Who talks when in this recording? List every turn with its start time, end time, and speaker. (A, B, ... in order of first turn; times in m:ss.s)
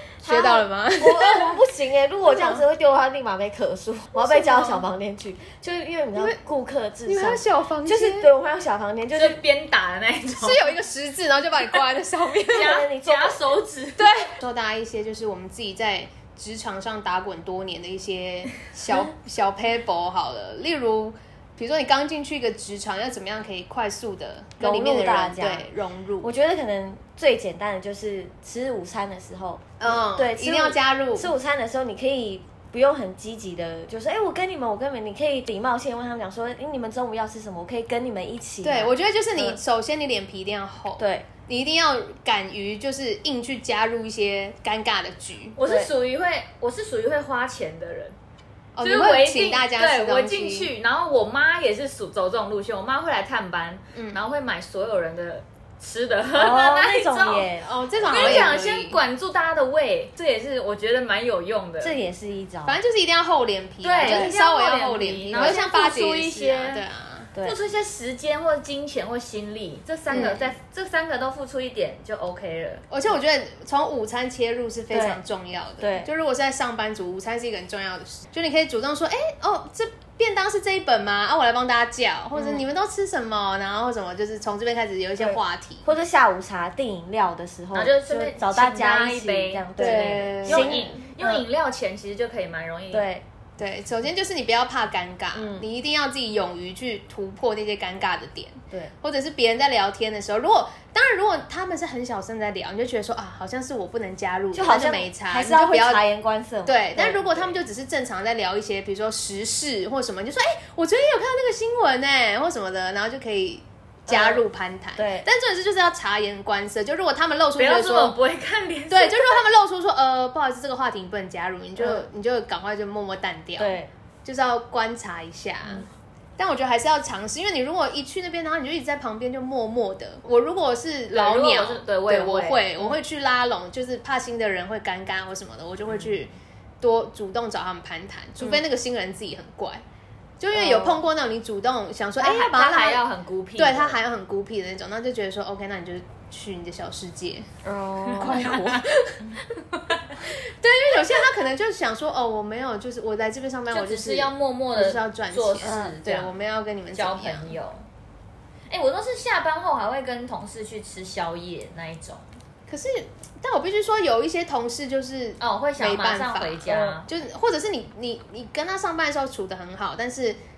0:00.2-0:09.4 A
0:00.2-0:01.6 B
0:02.2-0:02.6 B
0:04.1-0:04.8 B
0:07.0-0:08.3 B
0:09.1-0:10.7 C
0:10.3-0:12.8 B
0:12.5-0:14.3 C
0:12.5-0:13.4 A
0:14.0-0:26.3 B
0:24.6-0:25.7 A
0:26.2-0:39.6 A
0:29.8-0:31.3 B
0:38.6-0:45.6 B
0:41.0-0:41.3 A
0:45.6-0:48.2 C
0:45.6-0:45.9 A
0:48.8-0:50.7 B
0:48.8-0:57.5 C
0:53.9-0:54.2 B
0:56.3-0:58.6 A
0:57.6-0:59.0 B
0:58.0-1:02.0 C
1:01.8-1:02.8 A
1:02.6-1:07.3 B
1:03.8-1:06.8 C
1:04.0-1:04.3 A
1:05.3-1:05.6 A
1:07.4-1:12.8 C
1:10.1-1:10.4 B
1:10.1-1:10.4 A
1:12.9-1:25.9 B
1:14.9-1:15.2 A
1:15.8-1:16.1 A
1:22.3-1:22.6 A
1:25.2-1:31.4 A
1:27.7-1:33.1 C
1:29.8-1:30.9 B
1:32.9-1:33.2 A
1:33.6-1:46.0 B
1:35.3-1:35.6 A
1:44.5-1:47.6 A
1:46.6-1:58.2 B
1:54.1-1:54.4 A
1:55.0-1:55.3 A
1:57.6-1:59.4 C
1:58.9-2:05.8 B
2:01.8-2:02.0 A
2:03.6-2:03.9 A
2:06.4-2:19.8 B
2:11.1-2:12.6 C
2:20.4-2:23.0 B
2:20.5-2:21.0 A
2:22.2-2:24.0 C
2:23.6-2:27.5 B
2:27.6-2:29.4 A
2:28.0-2:28.8 C
2:28.2-2:29.2 B
2:29.8-2:30.2 C
2:30.2-2:37.6 B
2:33.7-2:36.3 C
2:35.6-2:36.3 A
2:36.9-2:37.8 C
2:38.7-2:42.2 C
2:42.7-2:50.4 B
2:45.4-2:47.1 C